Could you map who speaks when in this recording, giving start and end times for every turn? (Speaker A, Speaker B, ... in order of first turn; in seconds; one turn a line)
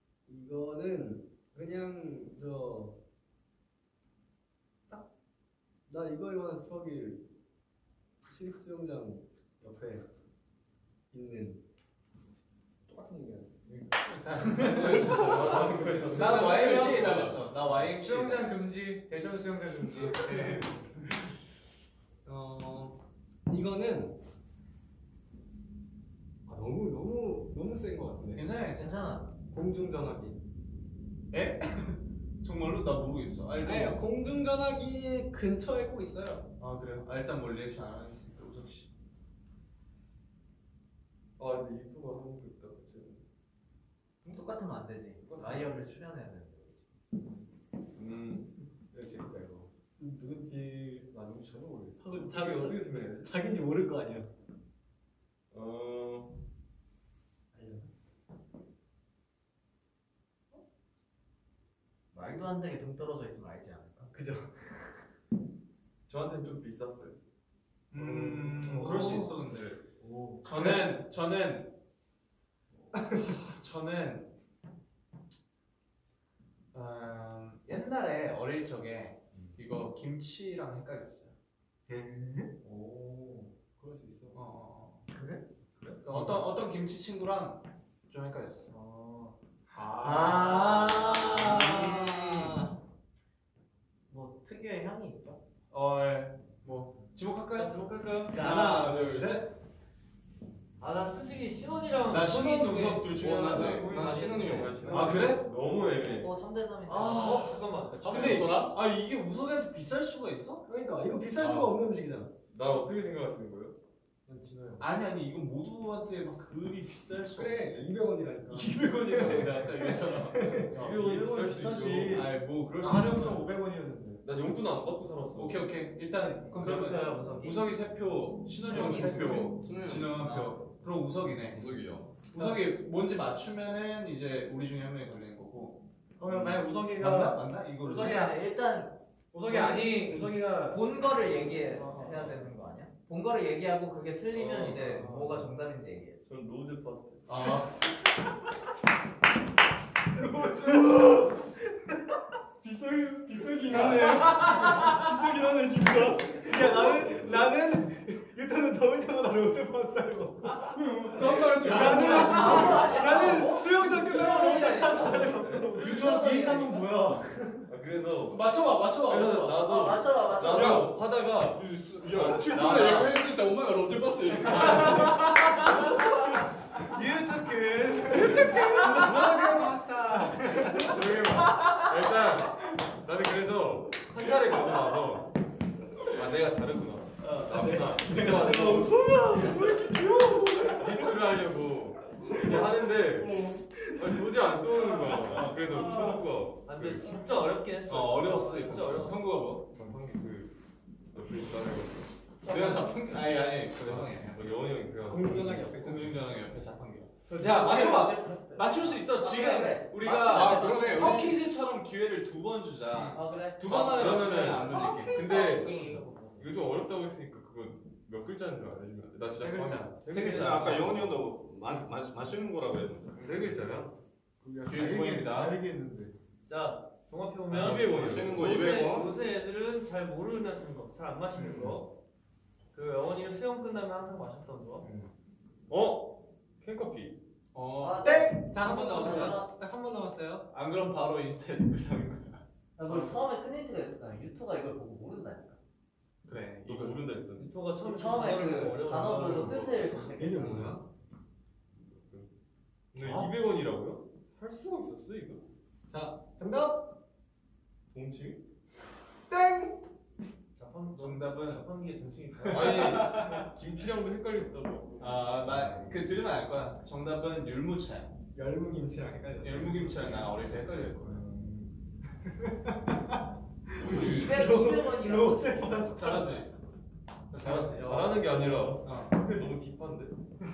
Speaker A: 0.3-3.0
Speaker A: 5.9-7.2
Speaker A: 8.3-10.0
Speaker A: 11.1-11.6
Speaker B: 12.9-13.8
Speaker C: 13.9-18.7
Speaker B: 14.4-15.2
Speaker D: 14.4-17.1
Speaker B: 16.1-20.9
Speaker E: 16.1-17.5
Speaker C: 20.0-20.7
Speaker A: 22.3-23.0
Speaker A: 23.5-24.1
Speaker A: 26.5-28.5
Speaker C: 28.3-29.0
Speaker F: 28.8-29.3
Speaker A: 29.5-30.4
Speaker C: 31.3-34.0
Speaker A: 33.6-36.5
Speaker C: 36.6-38.9
Speaker D: 41.4-43.2
Speaker F: 44.3-46.8
Speaker D: 48.0-48.5
Speaker B: 48.9-49.7
Speaker A: 50.0-51.0
Speaker B: 51.1-52.1
Speaker A: 52.0-54.3
Speaker D: 52.1-53.3
Speaker D: 55.5-56.3
Speaker A: 57.5-57.9
Speaker F: 62.1-64.1
Speaker A: 64.1-65.0
Speaker D: 66.1-67.2
Speaker C: 67.9-69.7
Speaker D: 68.0-69.7
Speaker B: 68.6-69.3
Speaker A: 68.7-69.3
Speaker G: 68.9-69.2
Speaker A: 70.0-70.9
Speaker C: 70.4-71.7
Speaker A: 72.9-73.3
Speaker C: 73.1-74.3
Speaker C: 76.7-81.3
Speaker G: 81.9-82.5
Speaker B: 82.6-84.3
Speaker C: 84.3-85.0
Speaker G: 85.1-85.4
Speaker C: 86.0-88.7
Speaker A: 88.7-89.3
Speaker A: 89.9-92.7
Speaker C: 90.0-92.6
Speaker B: 90.0-90.6
Speaker F: 94.1-95.4
Speaker C: 95.7-97.8
Speaker G: 97.5-98.9
Speaker A: 98.3-99.5
Speaker C: 98.3-99.5
Speaker G: 100.8-104.8
Speaker C: 102.1-105.5
Speaker E: 103.1-105.0
Speaker D: 103.7-106.3
Speaker B: 104.8-105.4
Speaker F: 106.0-107.6
Speaker G: 106.9-108.4
Speaker C: 107.0-107.5
Speaker E: 108.0-108.8
Speaker C: 108.0-110.7
Speaker A: 110.7-112.3
Speaker E: 111.4-111.7
Speaker D: 112.5-113.8
Speaker B: 114.3-114.8
Speaker C: 114.8-117.8
Speaker A: 117.3-120.7
Speaker C: 118.5-123.5
Speaker D: 120.7-122.3
Speaker B: 120.9-122.3
Speaker B: 122.8-124.2
Speaker D: 124.2-125.7
Speaker C: 125.3-131.7
Speaker F: 126.5-127.7
Speaker F: 128.7-129.2
Speaker E: 128.7-130.3
Speaker D: 128.7-129.6
Speaker F: 130.1-130.6
Speaker E: 131.5-132.3
Speaker C: 132.3-138.4
Speaker B: 136.2-137.5
Speaker D: 136.3-136.6
Speaker F: 137.8-139.0
Speaker C: 139.3-140.3
Speaker B: 139.3-140.9
Speaker F: 140.6-146.2
Speaker B: 141.5-142.3
Speaker D: 144.3-145.1
Speaker B: 145.0-145.5
Speaker D: 146.2-147.5
Speaker C: 147.3-147.8
Speaker B: 150.2-151.4
Speaker B: 152.6-157.5
Speaker A: 153.7-155.1
Speaker C: 154.0-154.7
Speaker A: 156.2-166.1
Speaker B: 160.6-163.6
Speaker C: 161.2-163.1
Speaker F: 161.8-167.1
Speaker B: 164.1-164.8
Speaker D: 165.2-165.6
Speaker B: 165.5-167.7
Speaker D: 167.7-173.2
Speaker C: 168.3-169.8
Speaker F: 169.5-171.0
Speaker C: 170.4-170.9
Speaker E: 170.6-170.9
Speaker E: 171.6-175.2
Speaker C: 174.4-176.3
Speaker D: 174.5-175.1
Speaker B: 176.8-181.0
Speaker A: 178.1-181.0
Speaker D: 180.8-185.3
Speaker D: 186.1-189.6
Speaker A: 187.2-190.9
Speaker D: 190.6-193.4
Speaker A: 192.3-192.7
Speaker A: 193.3-195.4
Speaker D: 194.0-197.1
Speaker B: 195.5-196.2
Speaker G: 196.7-199.4
Speaker C: 197.9-199.8
Speaker D: 199.7-200.5
Speaker D: 201.1-202.1
Speaker C: 202.5-204.7
Speaker G: 202.5-202.9
Speaker D: 203.7-205.8
Speaker A: 205.0-206.2
Speaker C: 205.6-215.4
Speaker D: 207.3-207.9
Speaker F: 207.4-211.4
Speaker E: 210.2-211.4
Speaker F: 213.1-214.3
Speaker D: 213.6-215.8
Speaker G: 214.4-216.6
Speaker F: 214.9-215.9
Speaker D: 216.4-221.2
Speaker C: 219.4-221.1
Speaker E: 220.1-223.4
Speaker D: 223.1-223.9
Speaker B: 224.4-226.1
Speaker C: 224.7-225.6
Speaker G: 226.5-231.9
Speaker D: 227.5-228.6
Speaker E: 227.5-229.1
Speaker G: 232.7-234.9
Speaker D: 235.7-237.2
Speaker C: 237.5-239.4
Speaker F: 237.8-239.5
Speaker A: 238.0-240.5
Speaker C: 240.5-243.2
Speaker F: 242.8-245.6
Speaker C: 246.2-247.0
Speaker D: 246.6-247.6
Speaker G: 247.4-249.9
Speaker F: 247.8-250.8
Speaker D: 248.4-249.9
Speaker A: 250.0-250.8
Speaker D: 251.8-252.3
Speaker D: 252.9-255.4
Speaker C: 253.0-253.3
Speaker A: 255.9-256.9
Speaker D: 257.9-258.4
Speaker A: 259.3-259.8
Speaker G: 260.6-263.3
Speaker C: 261.0-261.6
Speaker D: 262.5-266.0
Speaker C: 262.6-263.5
Speaker C: 265.0-268.1
Speaker A: 268.4-270.3
Speaker C: 269.4-271.2
Speaker A: 271.3-271.7
Speaker A: 272.4-272.7
Speaker A: 273.7-276.4
Speaker F: 274.0-275.9
Speaker C: 275.9-276.5
Speaker B: 277.4-278.3
Speaker D: 277.4-280.2
Speaker C: 277.4-277.9
Speaker G: 277.9-278.3
Speaker C: 278.7-279.2